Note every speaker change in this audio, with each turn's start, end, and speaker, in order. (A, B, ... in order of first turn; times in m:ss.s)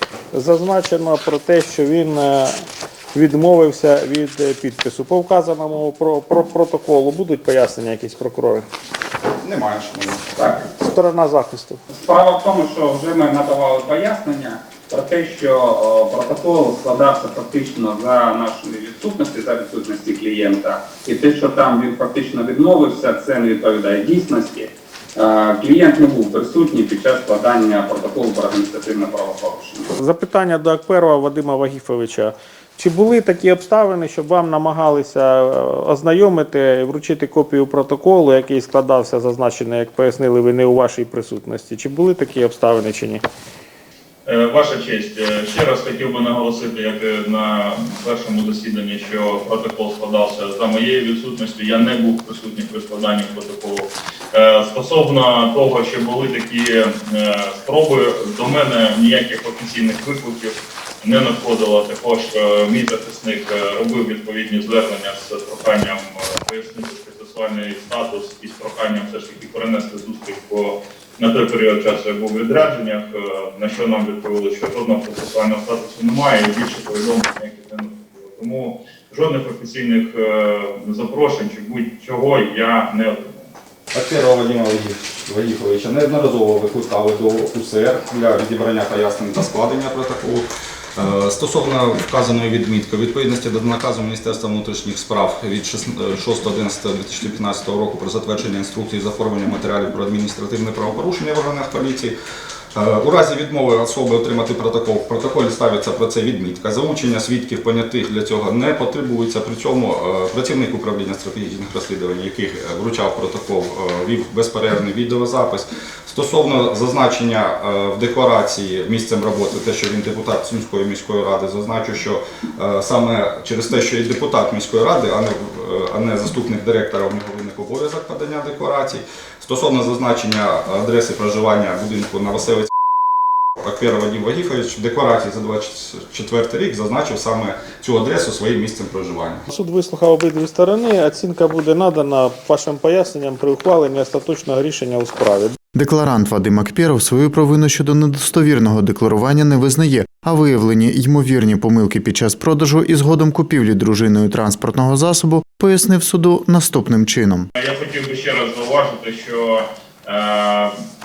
0:00.3-0:02.5 A
0:03.1-0:08.6 A
0:09.4-0:10.3 B
0:10.6-0:11.8 A
0:11.9-0:29.8 C
0:30.0-0:43.2 A
0:44.2-1:23.5 D
1:23.9-1:42.1 B
1:42.7-2:12.7 B
2:13.6-2:19.4 B
2:19.5-2:25.6 A
2:25.7-2:37.5 E
2:37.5-2:40.7 D